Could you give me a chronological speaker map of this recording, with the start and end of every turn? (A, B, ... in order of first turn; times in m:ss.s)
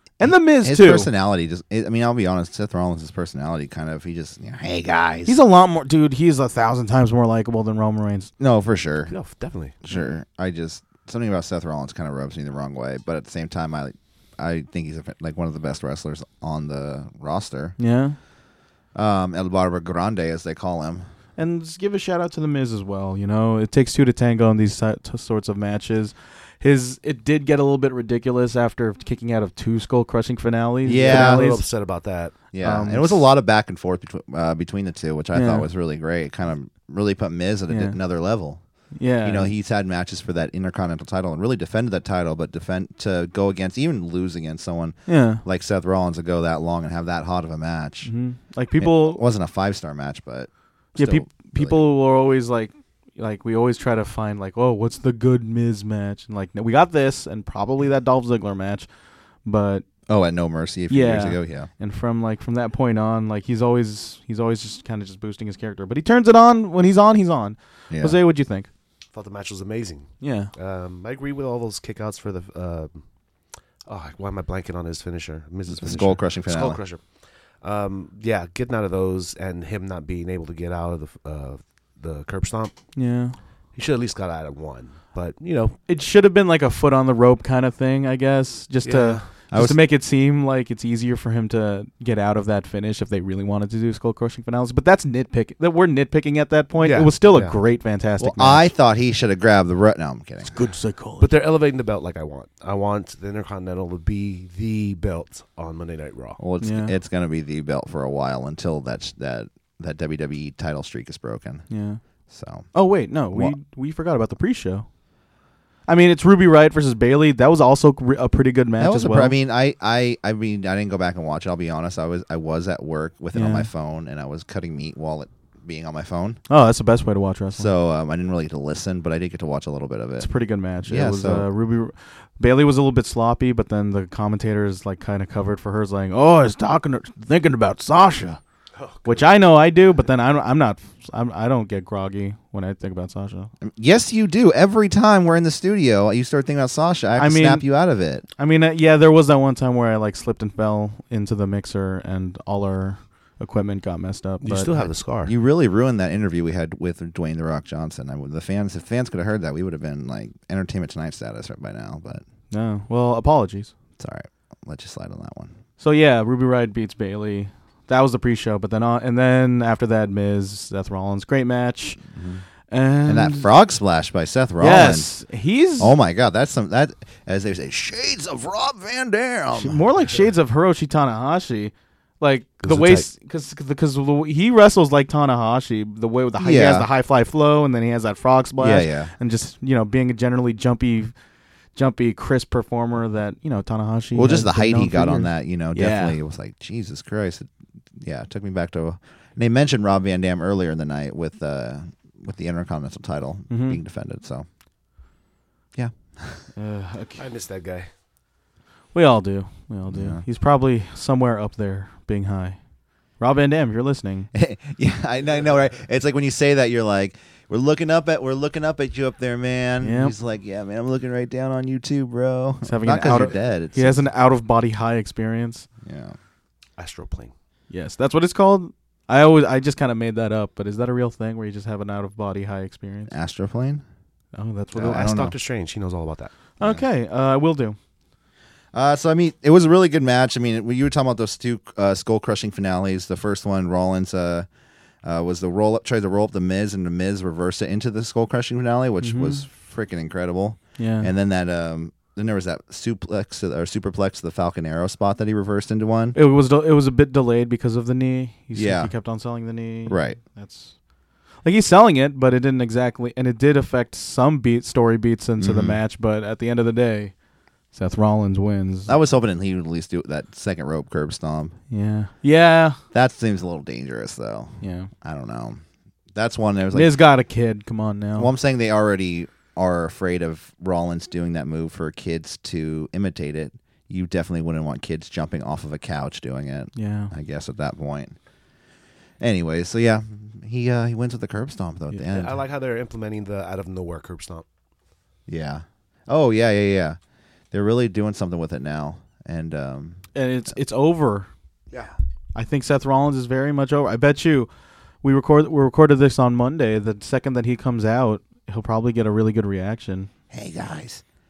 0:00.2-0:01.1 A
0:00.2-0:05.4 B
0:05.3-0:08.3 A
0:08.4-0:09.1 B
0:09.1-0:09.7 C
0:09.8-0:17.8 B
0:17.8-0:18.2 A
0:18.9-0:21.1 B
0:21.4-0:31.6 A
0:30.8-0:31.5 B
0:31.0-0:32.3 C
0:32.5-0:38.6 B
0:32.6-0:33.2 A
0:35.3-0:35.7 A
0:37.7-0:38.0 A
0:38.9-0:39.5 A
0:39.2-0:48.1 B
0:45.1-0:45.4 A
0:48.0-0:49.2 A
0:48.8-0:51.8 B
0:51.0-0:58.9 A
0:59.4-0:59.8 A
1:00.1-1:01.7 B
1:00.9-1:08.7 A
1:07.9-1:08.2 B
1:09.1-1:13.0 C
1:10.2-1:10.5 A
1:13.8-1:23.0 C
1:15.7-1:16.8 B
1:22.9-1:23.4 A
1:23.7-1:25.8 C
1:25.9-1:38.6 A
1:28.8-1:29.3 C
1:29.5-1:29.8 B
1:36.8-1:37.6 C
1:38.2-1:40.6 B
1:40.5-1:41.2 A
1:41.2-1:46.4 C
1:46.4-1:51.7 B
1:46.6-1:46.9 A
1:51.7-1:52.0 A
1:52.3-1:52.7 B
1:52.7-1:54.8 A
1:53.3-1:53.6 B
1:55.9-1:59.3 A
1:58.8-2:06.4 B
2:03.3-2:03.7 A
2:06.5-2:07.7 A
2:07.6-2:10.3 B
2:10.2-2:18.4 A
2:10.8-2:11.5 B
2:18.8-2:19.2 C
2:19.0-2:23.5 A
2:23.6-2:28.2 B
2:27.2-2:27.6 A
2:28.4-2:34.9 A
2:34.4-2:35.3 C
2:35.2-2:42.2 B
2:42.5-2:43.7 A
2:44.0-2:45.5 B
2:45.8-2:52.0 A
2:52.1-2:52.4 B
2:52.7-2:53.5 A
2:53.0-2:55.1 B
2:54.6-2:55.9 A
2:55.8-2:59.8 B
2:59.5-3:11.1 A
3:02.6-3:03.1 C
3:06.4-3:06.9 B
3:08.6-3:09.1 B
3:11.7-3:16.2 A
3:14.1-3:24.4 B
3:23.5-3:23.8 A
3:25.7-3:26.4 B
3:26.5-3:27.2 A
3:27.2-3:27.9 C
3:28.9-3:32.6 A
3:29.9-3:30.2 B
3:33.2-3:34.3 A
3:34.3-3:44.0 B
3:39.8-3:40.1 A
3:42.6-3:45.7 A
3:45.8-3:46.2 B
3:46.8-3:47.3 C
3:47.7-3:53.1 A
3:53.1-3:53.8 B
3:54.3-3:55.1 A
3:54.7-3:55.3 B
3:54.8-3:56.3 C
3:56.6-3:57.8 A
3:58.7-4:04.5 B
4:05.0-4:16.2 B
4:09.0-4:09.4 A
4:10.8-4:11.1 A
4:16.1-4:20.8 A
4:18.5-4:18.9 B
4:19.9-4:20.2 B
4:21.4-4:27.1 A
4:25.4-4:25.8 B
4:27.7-4:28.9 A
4:28.9-4:31.6 B
4:31.7-4:32.8 A
4:32.9-4:35.6 B
4:34.6-4:34.9 A
4:36.1-4:36.9 B
4:36.7-4:38.3 A
4:38.2-4:48.2 B
4:46.7-4:47.1 A
4:49.2-4:52.4 B
4:52.1-4:54.4 C
4:55.3-4:57.0 B
4:57.5-5:00.1 B
5:00.1-5:01.3 A
5:02.3-5:04.5 A
5:05.0-5:10.1 A
5:10.3-5:11.0 B